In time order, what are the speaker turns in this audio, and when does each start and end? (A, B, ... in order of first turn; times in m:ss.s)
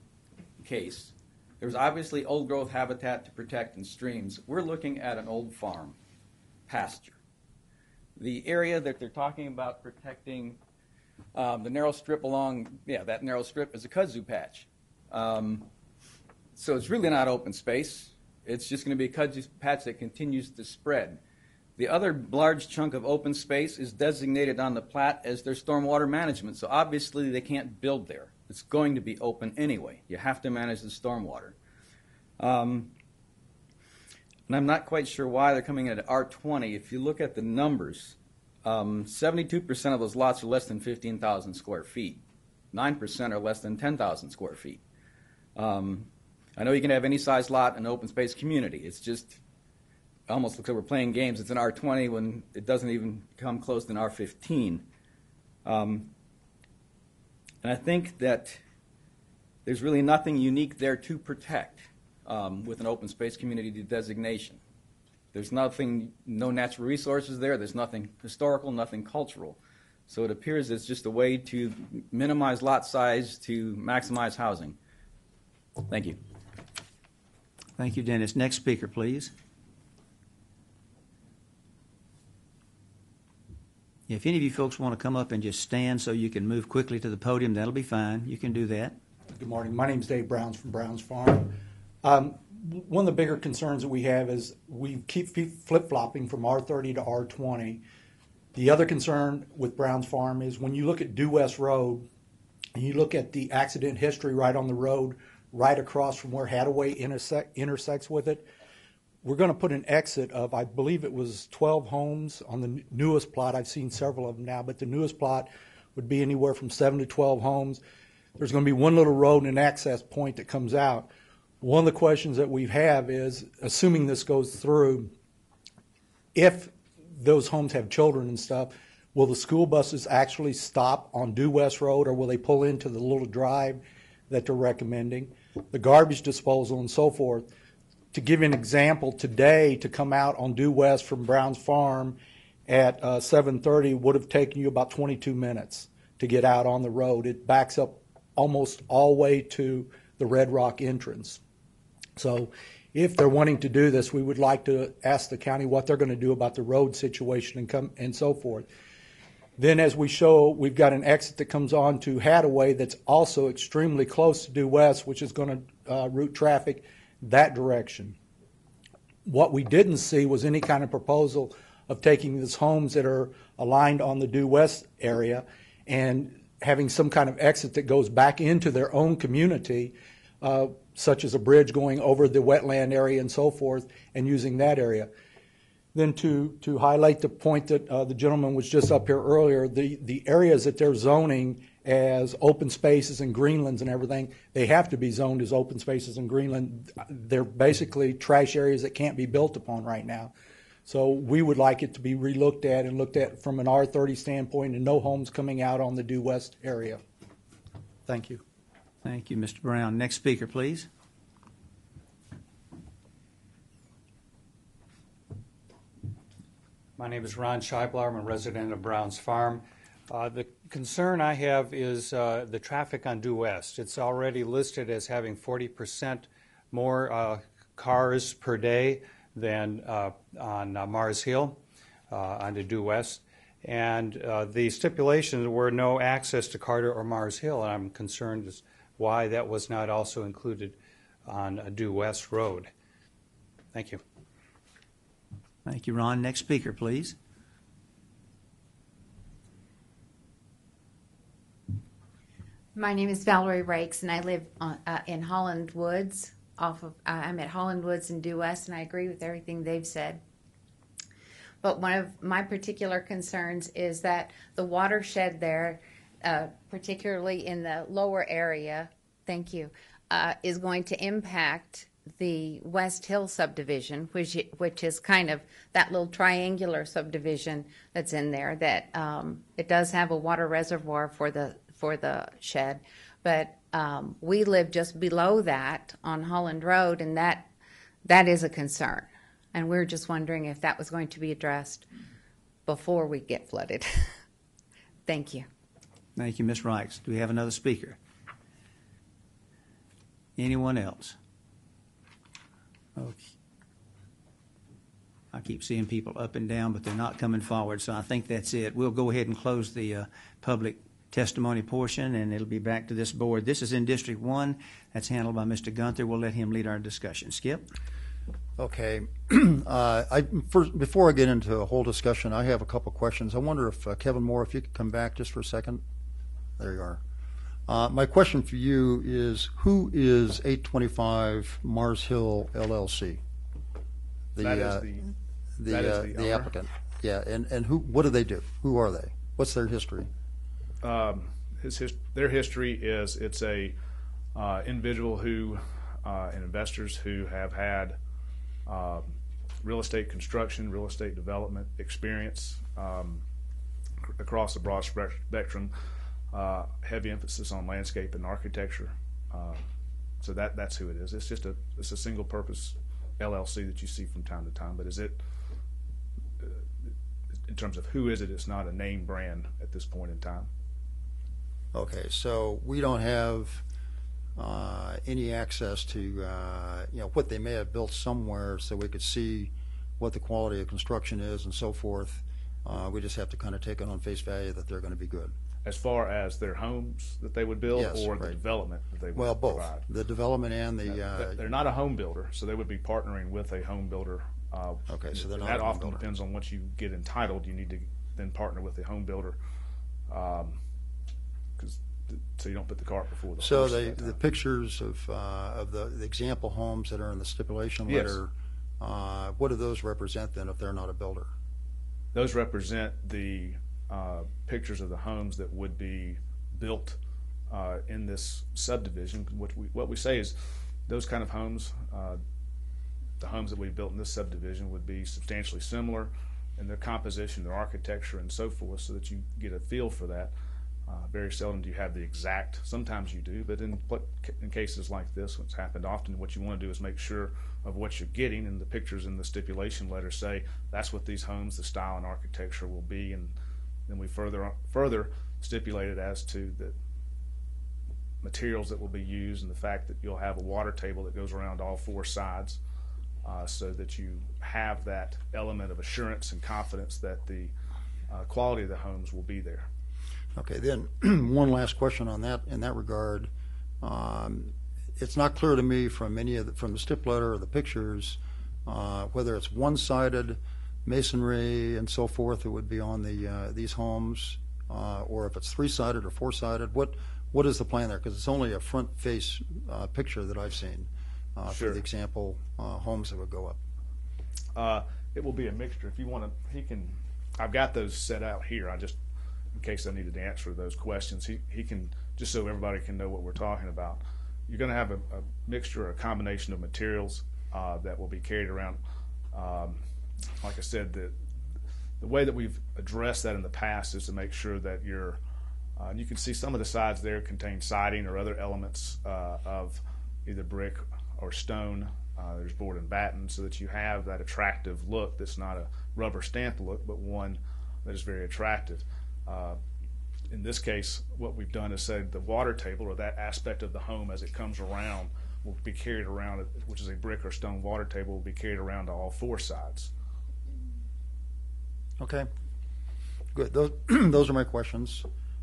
0:00.6-0:06.0 A
0:06.7-0:07.2 A
0:08.2-0:10.6 A
0:11.4-0:15.7 A
0:16.6-0:21.2 A
0:21.8-0:31.6 A
0:32.4-0:32.9 A
0:34.5-0:44.8 A
0:45.6-0:49.4 A
0:50.3-0:54.9 A
0:55.6-0:56.1 A
0:57.6-0:58.6 A
0:59.6-1:04.6 A
1:05.3-1:14.8 A
1:15.9-1:16.2 A
1:17.8-1:19.3 B
1:24.1-1:29.0 B
1:29.4-1:37.8 C
1:38.5-1:42.1 C
1:42.8-1:48.5 C
1:49.2-1:57.8 C
1:58.4-2:05.1 C
2:06.4-2:17.5 C
2:18.1-2:31.4 C
2:32.2-2:38.7 C
2:39.6-2:48.2 C
2:49.2-3:05.1 C
3:05.9-3:20.3 C
3:20.9-3:27.0 C
3:28.1-3:28.4 C
3:29.0-3:30.9 B
3:37.0-4:02.7 D
4:03.7-4:04.0 D
4:05.7-4:07.2 B
4:12.8-4:20.2 E
4:21.6-4:47.5 E
4:48.0-4:51.9 E
4:52.7-4:54.1 E
4:55.1-4:55.5 E
4:56.2-4:58.0 B
5:00.4-5:01.2 B
5:03.0-5:03.3 B
5:05.3-5:17.7 B
5:18.6-5:25.8 F
5:26.6-5:27.0 F
5:27.7-5:33.2 F
5:34.4-5:34.9 F
5:34.4-5:35.1 G
5:35.6-5:40.1 F
5:35.7-5:36.5 G
5:40.8-5:43.8 G
5:44.4-5:48.0 G
5:48.7-5:49.1 G
5:49.6-5:53.2 G
5:54.2-5:55.7 G
5:56.3-5:59.6 G
6:00.2-6:05.2 G
6:06.4-6:06.9 G
6:07.5-6:10.5 G
6:11.7-6:13.6 F
6:14.4-6:25.3 F
6:25.6-6:29.8 G
6:27.7-6:28.4 F
6:29.2-6:31.4 F
6:30.9-6:39.4 G
6:34.9-6:36.1 F
6:40.1-6:40.6 G
6:41.6-6:44.2 G
6:43.4-6:51.3 F
6:47.9-6:48.2 G
6:52.1-6:57.0 G
6:57.5-7:00.4 G
7:00.9-7:02.2 G
7:03.2-7:10.3 G
7:10.9-7:23.3 G
7:23.9-7:26.8 G
7:28.2-7:32.6 G
7:33.2-7:37.5 G
7:38.1-7:39.7 G
7:40.4-7:43.3 F
7:43.8-8:03.6 F
8:01.5-8:01.8 G
8:04.6-8:09.0 G
8:09.6-8:18.8 G
8:19.3-8:19.8 G
8:20.4-8:21.2 G
8:22.0-8:25.2 G
8:25.8-8:39.6 G
8:40.3-8:49.9 G
8:52.0-8:52.3 F
8:53.3-8:55.1 F